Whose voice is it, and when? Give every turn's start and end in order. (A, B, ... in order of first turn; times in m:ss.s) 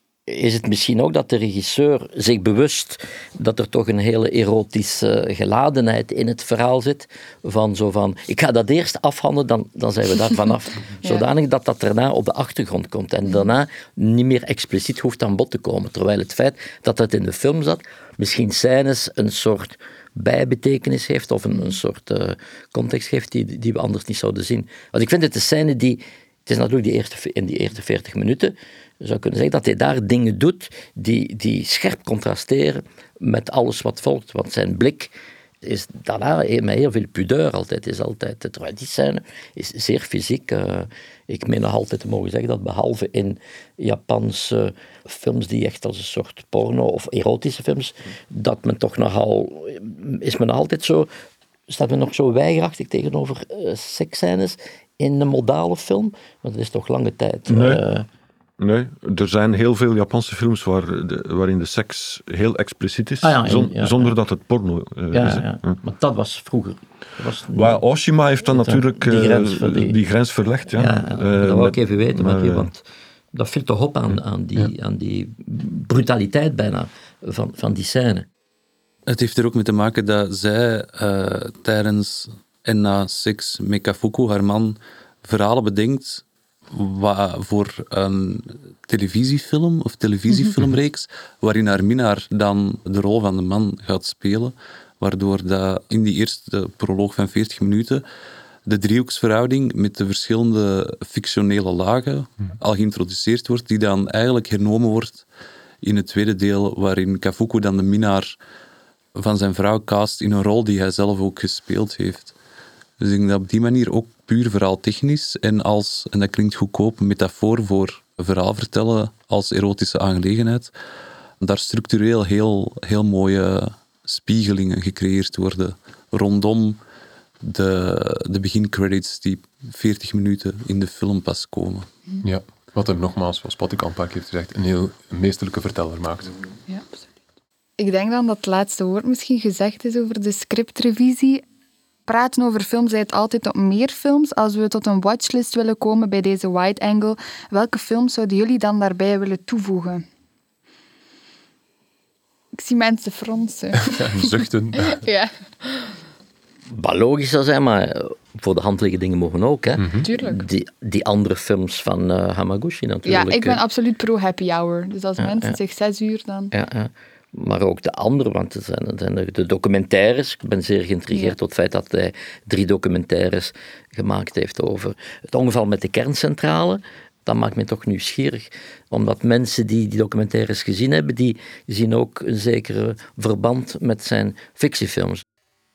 0:00.3-0:35.1 A
0:35.6-0:51.1 A
0:51.7-0:58.1 A
0:57.5-0:57.8 B
0:58.6-1:05.8 B
1:03.2-1:04.2 A
1:05.1-1:07.8 A
1:07.5-1:12.7 B
1:08.5-1:10.0 A
1:10.8-1:12.8 A
1:13.3-1:18.3 A
1:19.1-1:38.0 C
1:38.7-1:45.2 C
1:45.8-1:48.4 C
1:49.2-1:52.3 C
1:53.0-2:00.7 C
2:01.4-2:06.8 C
2:07.4-2:11.9 C
2:12.2-2:16.3 D
2:16.7-2:17.0 E
2:17.8-2:21.4 E
2:22.1-2:30.0 E
2:32.6-2:35.9 E
2:33.8-2:35.0 D
2:36.7-2:43.6 A
2:39.8-2:40.0 D
2:40.0-2:40.4 E
2:43.0-2:46.5 E
2:45.2-2:45.5 A
2:46.5-3:05.2 A